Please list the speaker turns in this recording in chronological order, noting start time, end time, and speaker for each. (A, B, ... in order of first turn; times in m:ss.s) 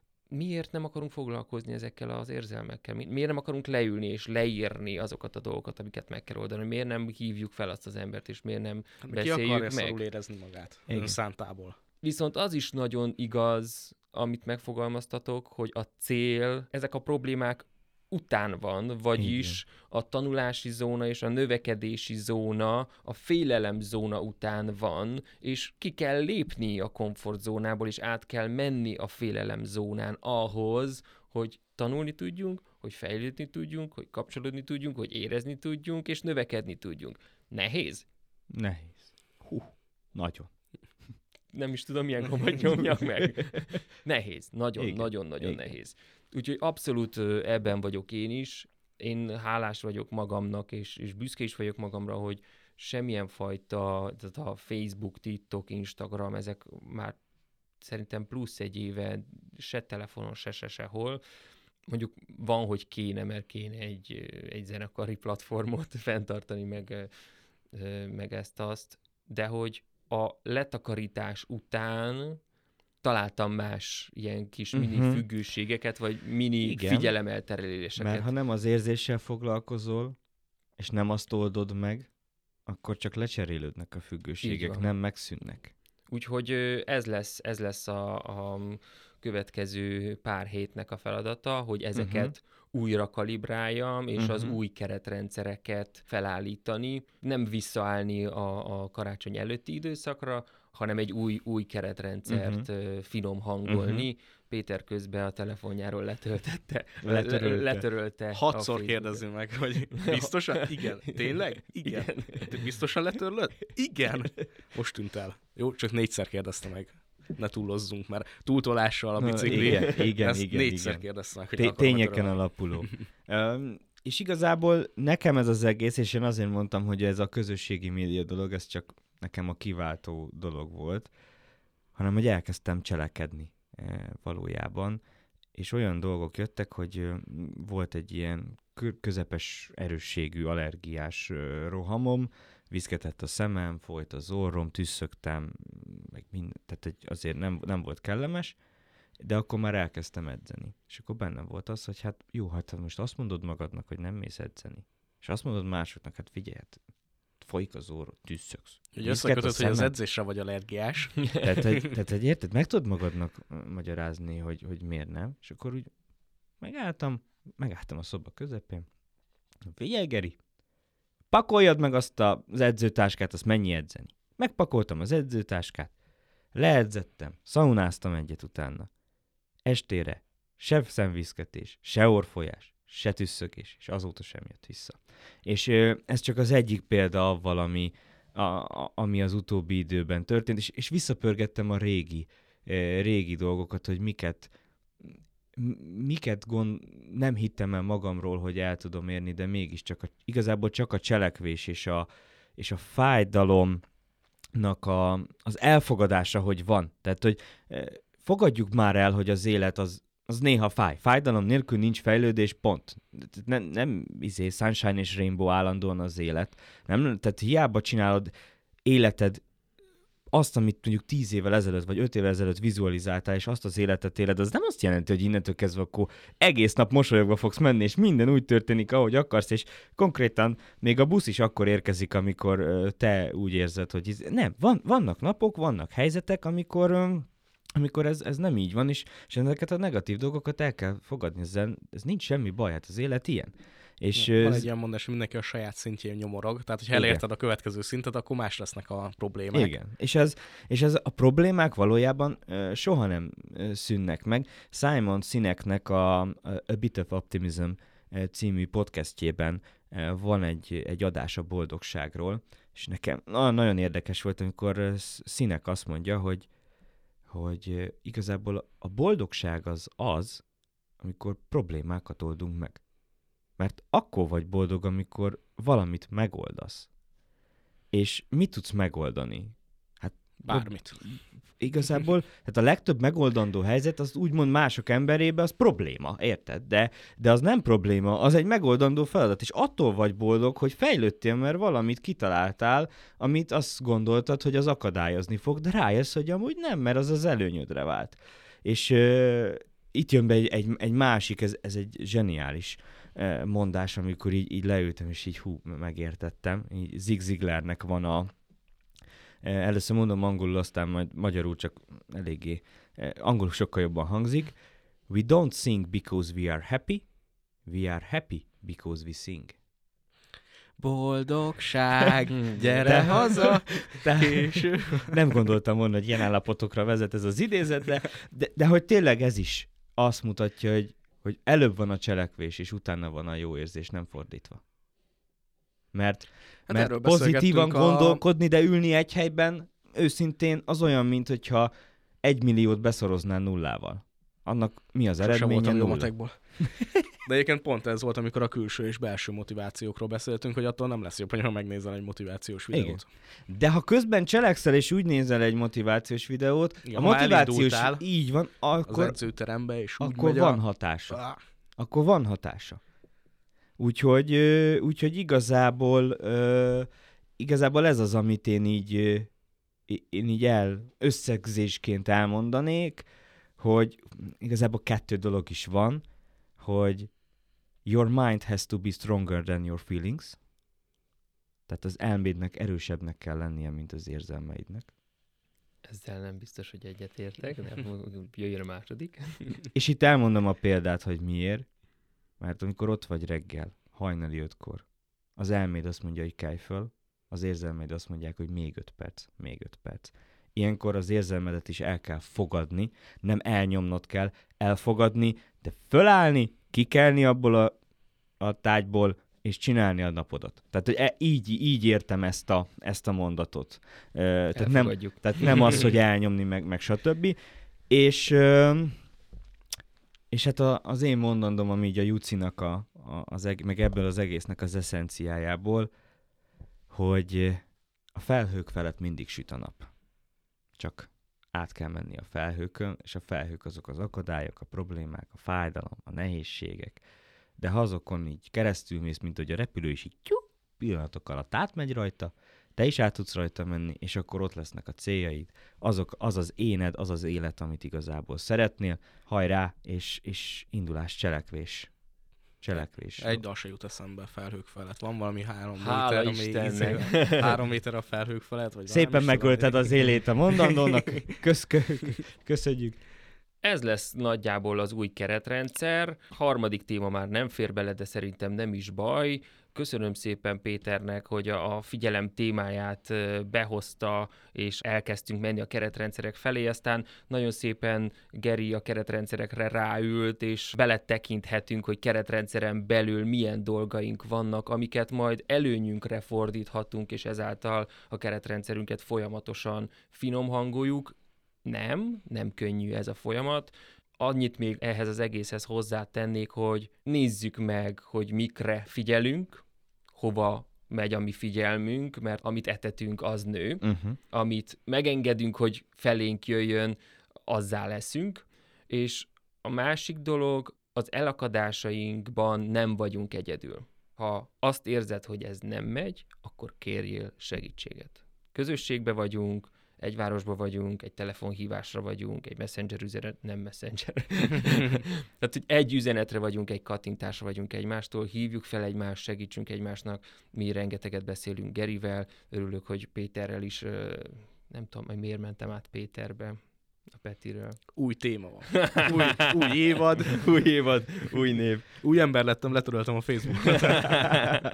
0:00.3-0:10.0 A
0:09.0-0:11.8 B
0:10.9-0:11.2 C
0:12.0-0:38.0 A
0:19.2-0:19.6 C
0:38.5-0:40.5 C
0:41.5-0:57.2 A
0:44.8-0:45.6 C
0:57.8-1:01.2 A
1:01.9-1:07.1 A
1:07.7-1:12.4 A
1:13.0-1:18.3 A
1:14.7-1:15.2 C
1:16.6-1:17.1 C
1:18.0-1:20.2 C
1:20.8-1:22.1 C
1:22.6-1:25.7 C
1:24.4-1:24.9 A
1:26.1-1:49.2 A
1:31.9-1:32.3 C
1:34.2-1:34.6 C
1:42.3-1:42.7 C
1:43.6-1:44.1 C
1:47.0-1:47.8 C
1:48.3-2:03.0 B
1:49.9-1:50.9 A
1:51.8-1:52.6 A
1:59.2-2:11.1 C
1:59.7-2:00.0 A
2:11.9-2:15.0 C
2:15.5-2:28.6 C
2:29.2-2:36.8 C
2:37.4-2:39.9 C
2:38.9-2:41.4 B
2:41.4-2:45.9 C
2:46.6-2:48.9 C
2:49.6-2:50.4 C
2:51.3-2:55.9 C
2:56.5-2:58.9 C
2:59.6-3:23.8 C
3:24.5-3:38.3 C
3:38.8-3:39.4 C
3:40.3-4:04.6 C
4:04.1-4:09.7 B
4:06.9-4:07.2 C
4:09.5-4:26.5 C
4:27.3-4:30.4 C
4:31.0-4:32.8 C
4:33.6-4:36.9 C
4:37.9-5:08.3 C
4:40.4-4:41.0 B
5:09.4-5:14.6 C
5:15.1-5:17.1 C
5:17.6-5:19.6 C
5:20.8-5:25.3 B
5:22.3-5:23.0 A
5:22.8-5:34.6 C
5:35.9-5:41.7 C
5:36.7-5:38.2 B
5:42.2-5:46.1 C
5:45.2-5:46.6 B
5:47.2-5:53.1 B
5:52.7-5:59.2 C
5:56.8-5:58.0 B
5:58.9-6:01.4 B
6:00.0-6:01.2 C
6:01.8-6:02.8 C
6:03.8-6:06.9 C
6:07.4-6:09.3 C
6:09.9-6:13.0 C
6:13.6-6:16.0 C
6:16.6-6:17.1 C
6:17.8-6:20.4 C
6:21.7-6:24.9 C
6:25.8-6:29.6 A
6:29.7-6:31.7 C
6:32.4-6:34.8 C
6:35.4-6:47.8 C
6:48.4-6:57.4 C
6:54.5-6:55.9 A
6:57.9-6:59.0 C
7:00.3-7:05.9 C
7:06.9-7:07.6 C
7:08.1-7:09.9 C
7:10.8-7:17.0 C
7:17.6-7:31.9 C
7:32.6-7:33.4 C
7:33.2-7:41.0 B
7:35.8-7:37.6 A
7:38.9-7:43.0 C
7:43.6-8:19.6 A
8:20.2-8:57.8 A
8:23.8-8:24.2 C
8:57.9-9:00.5 B
8:58.8-8:59.4 A
9:00.3-9:01.9 C
9:02.0-9:04.6 B